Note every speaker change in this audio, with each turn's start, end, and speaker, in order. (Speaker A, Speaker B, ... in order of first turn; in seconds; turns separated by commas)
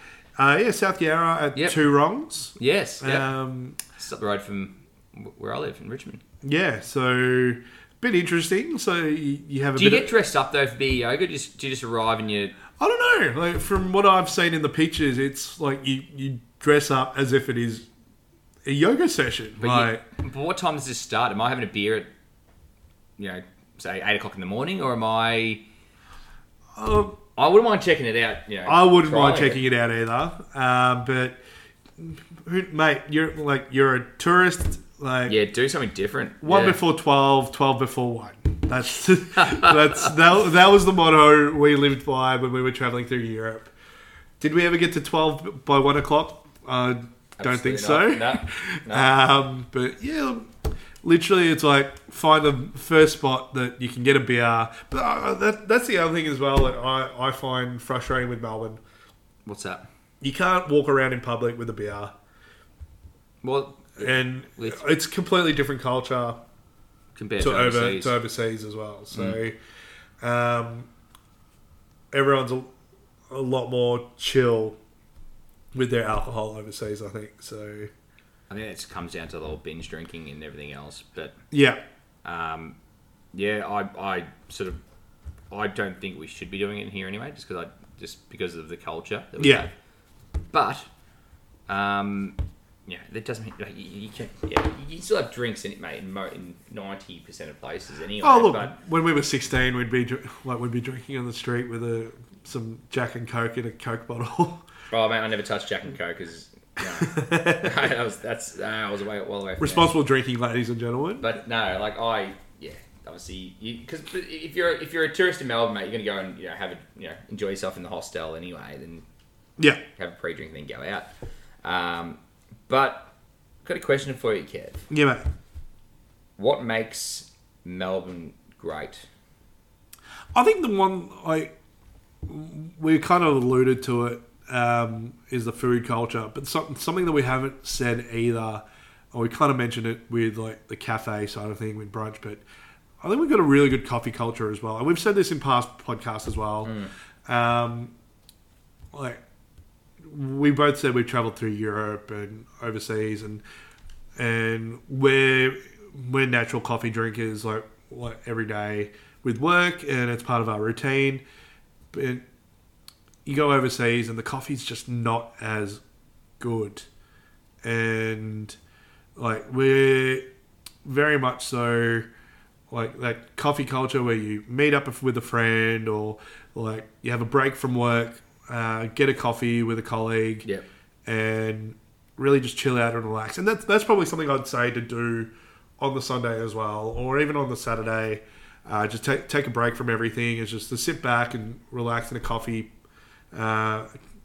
Speaker A: 0.4-3.8, Speaker B: 1.6-1.8, Speaker B: 2.6-3.3, Speaker B: 4.0-6.2, Speaker A: 6.4-10.1, Speaker B: 9.8-12.6, Speaker A: 12.8-17.9, Speaker A: 18.6-20.0, Speaker B: 19.6-22.1, Speaker B: 23.2-25.6, Speaker A: 26.8-27.2, Speaker B: 27.4-29.6, Speaker A: 28.7-31.4, Speaker A: 32.0-35.4, Speaker B: 35.3-36.8, Speaker A: 36.4-43.7, Speaker B: 39.4-40.1, Speaker A: 44.4-50.5, Speaker B: 47.4-49.1, Speaker A: 51.0-58.8, Speaker B: 59.5-59.9, Speaker A: 60.2-62.1, Speaker B: 63.4-64.8, Speaker A: 64.0-66.4, Speaker B: 67.2-68.2, Speaker A: 67.4-69.6, Speaker B: 69.1-69.4, Speaker A: 70.2-70.9, Speaker A: 72.1-72.7, Speaker A: 73.3-74.8, Speaker A: 75.7-77.9, Speaker B: 78.5-81.4, Speaker A: 81.5-81.8, Speaker B: 82.2-82.8, Speaker B: 83.3-84.8, Speaker B: 85.5-89.7, Speaker A: 89.4-89.7, Speaker B: 90.5-90.9, Speaker B: 91.7-98.8, Speaker A: 98.2-104.6, Speaker B: 104.9-109.9, Speaker A: 106.8-107.8, Speaker A: 109.6-111.4, Speaker B: 111.2-119.0, Speaker B: 119.9-121.1, Speaker B: 121.6-123.1, Speaker B: 123.6-124.8, Speaker A: 124.9-125.3, Speaker B: 126.4-129.1, Speaker A: 130.3-131.5, Speaker A: 132.3-142.4, Speaker A: 143.0-147.9, Speaker B: 146.6-146.9, Speaker A: 148.9-149.2, Speaker A: 150.0-153.4, Speaker A: 154.2-161.2, Speaker A: 161.9-162.2, Speaker A: 163.3-165.8, Speaker A: 166.4-166.9, Speaker A: 167.6-168.6, Speaker A: 169.2-170.2, Speaker A: 170.8-172.1, Speaker A: 172.7-180.5, Speaker A: 181.1-192.7, Speaker A: 193.3-193.9